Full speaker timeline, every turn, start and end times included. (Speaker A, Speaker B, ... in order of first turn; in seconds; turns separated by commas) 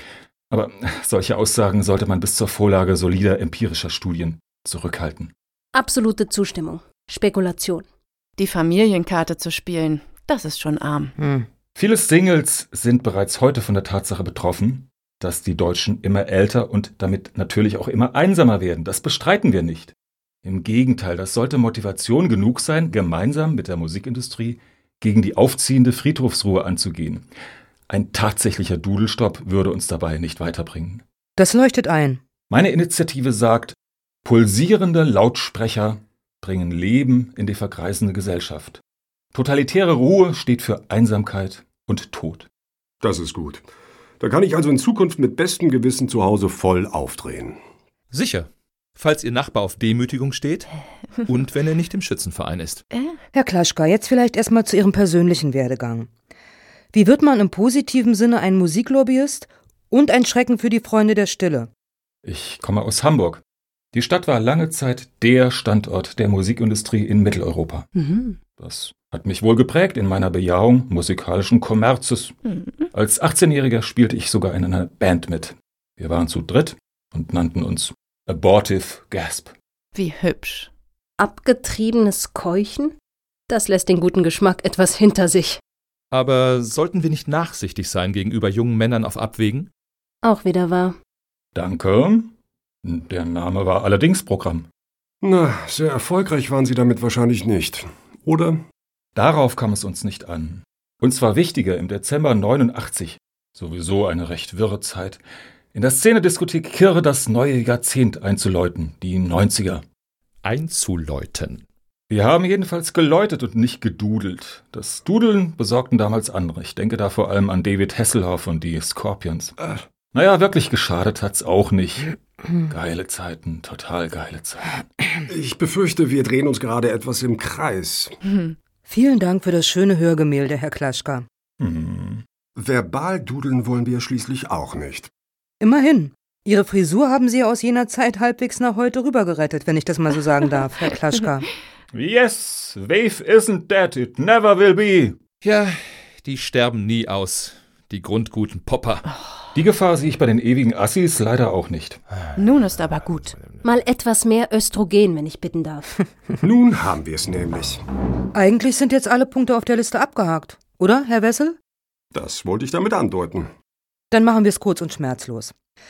Speaker A: 0.5-5.3, Speaker B: 5.7-7.9, Speaker C: 8.4-11.2, Speaker D: 11.2-11.5, Speaker A: 11.8-27.3, Speaker A: 27.9-31.0, Speaker D: 31.4-32.2, Speaker A: 32.5-38.8, Speaker A: 39.3-42.5, Speaker E: 43.0-43.6, Speaker E: 44.2-47.6, Speaker F: 48.1-50.7, Speaker F: 51.3-52.8, Speaker D: 53.3-56.1, Speaker D: 56.9-61.7, Speaker A: 62.2-67.9, Speaker A: 68.5-72.4, Speaker A: 72.9-79.5, Speaker C: 79.9-80.7, Speaker B: 81.2-82.9, Speaker B: 83.5-85.6, Speaker F: 86.1-89.7, Speaker B: 90.2-91.0, Speaker A: 91.5-94.7, Speaker E: 95.2-98.6, Speaker A: 99.2-105.2, Speaker A: 105.7-109.8, Speaker F: 110.4-111.7, Speaker A: 112.1-119.6, Speaker A: 120.1-124.9, Speaker E: 125.3-128.2, Speaker D: 128.9-131.3, Speaker A: 131.6-132.2, Speaker E: 132.6-135.1, Speaker D: 135.6-141.5, Speaker A: 141.9-145.2, Speaker F: 145.4-149.1, Speaker A: 149.6-152.0, Speaker C: 152.4-153.4, Speaker B: 153.6-155.9, Speaker E: 156.4-157.8, Speaker D: 158.3-161.6, Speaker E: 162.1-163.5, Speaker D: 164.1-165.5